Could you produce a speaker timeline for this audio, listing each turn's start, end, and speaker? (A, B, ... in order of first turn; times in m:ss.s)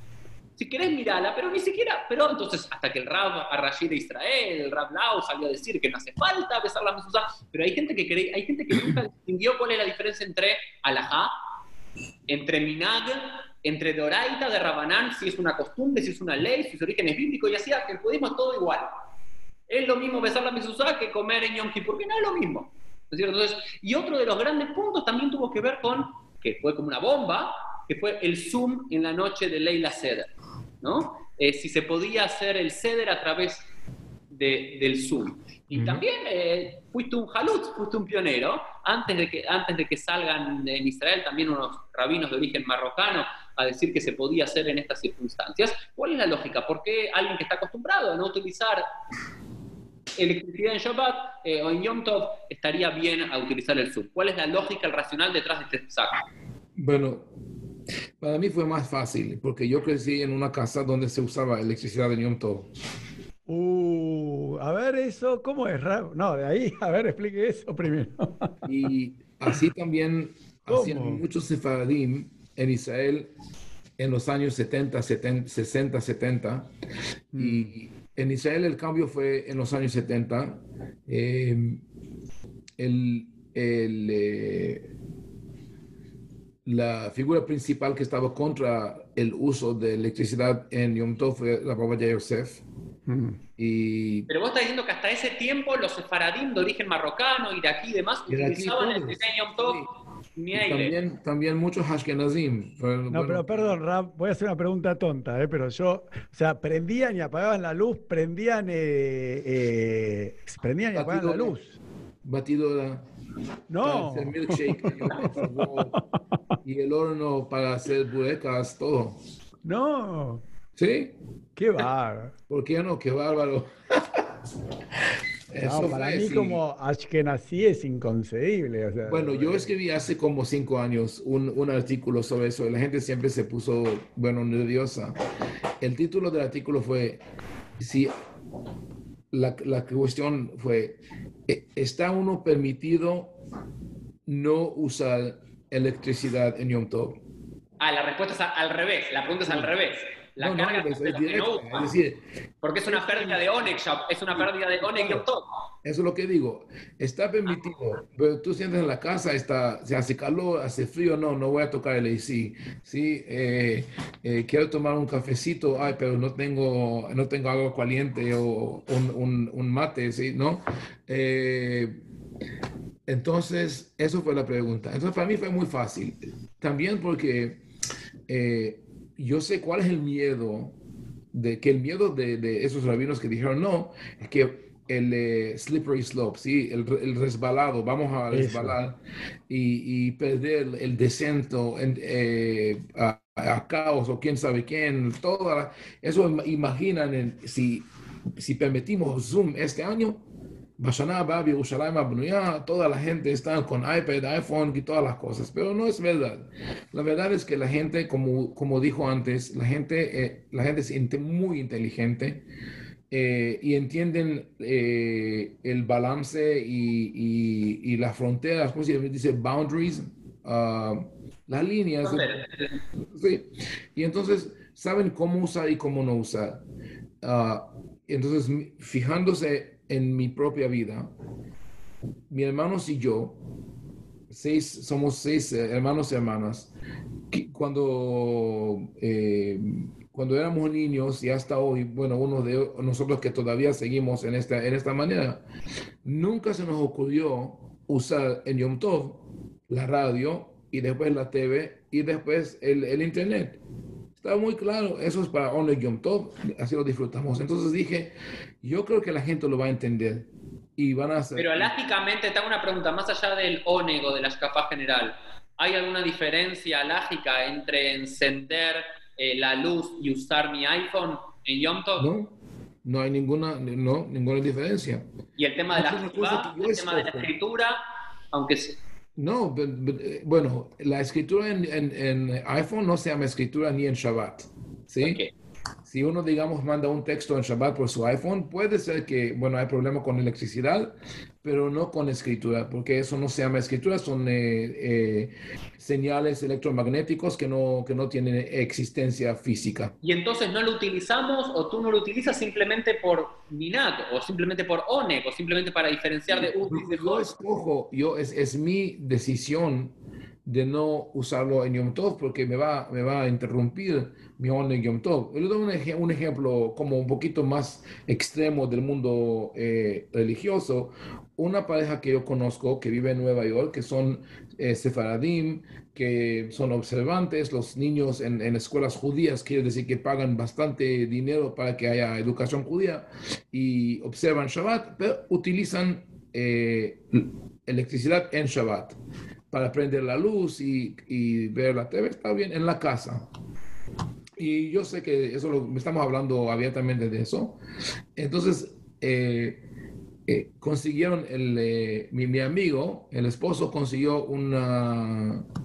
0:00.6-0:11.3 A
0:12.3-0:18.9 A
0:19.7-0:30.3 A
0:30.8-0:33.6 A
0:34.3-0:48.8 A
0:35.7-0:36.0 B
0:50.2-0:56.2 A
0:56.8-0:57.3 B
0:58.2-1:02.7 B
1:03.5-1:08.5 C
1:08.6-1:13.3 B
1:10.7-1:11.2 C
1:14.0-1:16.7 B
1:17.3-1:17.7 C
1:17.4-1:21.8 B
1:22.8-1:24.9 B
1:26.6-1:32.6 B
1:33.1-1:33.4 C
1:33.6-1:34.3 B
1:34.3-1:39.8 A
1:38.3-1:39.9 B
1:40.4-1:40.9 A
1:40.5-1:43.8 B
1:43.1-1:51.7 C
1:50.9-1:51.5 B
1:52.2-1:53.0 B
1:53.7-1:56.1 C
1:53.8-1:56.0 B
1:56.6-1:59.2 B
1:59.6-2:00.4 C
2:00.8-2:01.1 B
2:01.6-2:02.3 C
2:02.5-2:04.2 B
2:05.5-2:06.6 B
2:05.6-2:09.6 C
2:09.0-2:15.1 B
2:15.8-2:17.2 B
2:17.8-2:18.1 B
2:19.3-2:23.3 B
2:24.3-2:27.2 B
2:27.8-2:31.9 A
2:29.5-2:29.7 B
2:30.4-2:32.2 B
2:32.6-2:35.4 A
2:33.1-2:33.3 B
2:34.4-2:35.2 B
2:35.8-2:52.0 B
2:53.1-2:57.6 B
2:58.3-3:00.8 B
3:01.3-3:09.0 B
3:08.3-3:08.8 C
3:09.5-3:17.9 B
3:18.4-3:20.2 B
3:20.8-3:32.4 B
3:33.1-3:42.3 B
3:42.0-3:42.8 A
3:43.1-3:46.6 B
3:47.2-3:51.1 B
3:52.3-3:53.4 B
3:54.3-3:56.7 B
3:57.3-4:05.4 B
4:06.0-4:13.6 B
4:14.2-4:21.7 B
4:21.4-4:32.1 A
4:32.0-4:35.1 B
4:35.4-4:37.8 A
4:35.7-4:37.3 B
4:38.3-4:38.8 A
4:39.2-4:45.2 B
4:45.0-4:45.3 A
4:45.9-4:59.9 B
5:00.0-5:07.3 A
5:06.3-5:09.9 B
5:10.4-5:39.0 B
5:39.5-5:43.3 B
5:44.4-5:47.6 B
5:48.2-5:49.6 B
5:50.3-5:55.4 B